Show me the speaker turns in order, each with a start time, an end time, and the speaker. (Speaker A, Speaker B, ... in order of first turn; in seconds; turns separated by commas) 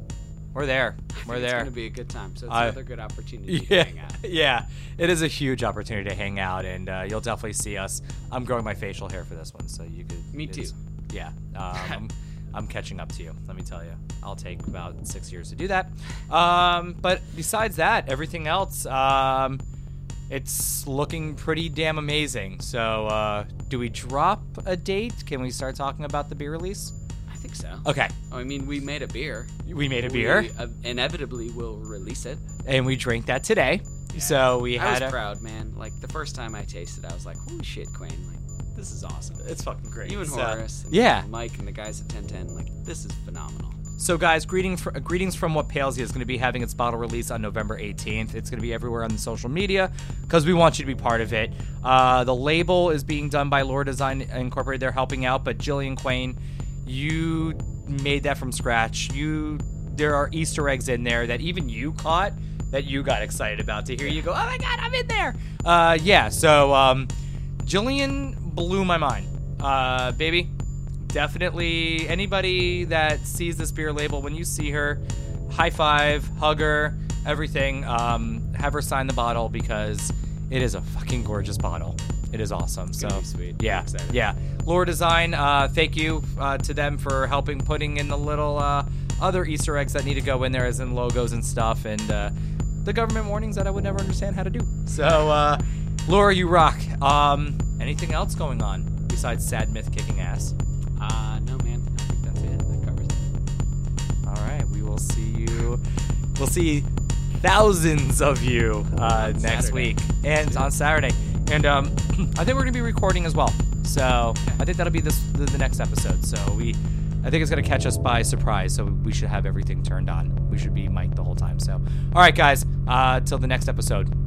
Speaker A: 0.5-1.7, Speaker B: 1.2-4.2, Speaker A: 2.5-2.8, Speaker A: 3.5-19.6, Speaker B: 10.3-10.8, Speaker A: 20.3-26.9, Speaker B: 27.3-32.4, Speaker A: 27.8-28.1, Speaker A: 29.6-30.5, Speaker A: 32.6-35.2, Speaker B: 34.1-39.4, Speaker A: 39.4-41.3, Speaker B: 40.0-43.8, Speaker A: 44.0-67.1, Speaker A: 67.6-70.5, Speaker A: 71.0-92.3, Speaker B: 83.0-84.2, Speaker A: 92.8-100.5, Speaker B: 101.0-103.3, Speaker A: 104.2-105.8, Speaker A: 106.3-106.9, Speaker A: 107.4-124.1, Speaker B: 109.0-110.7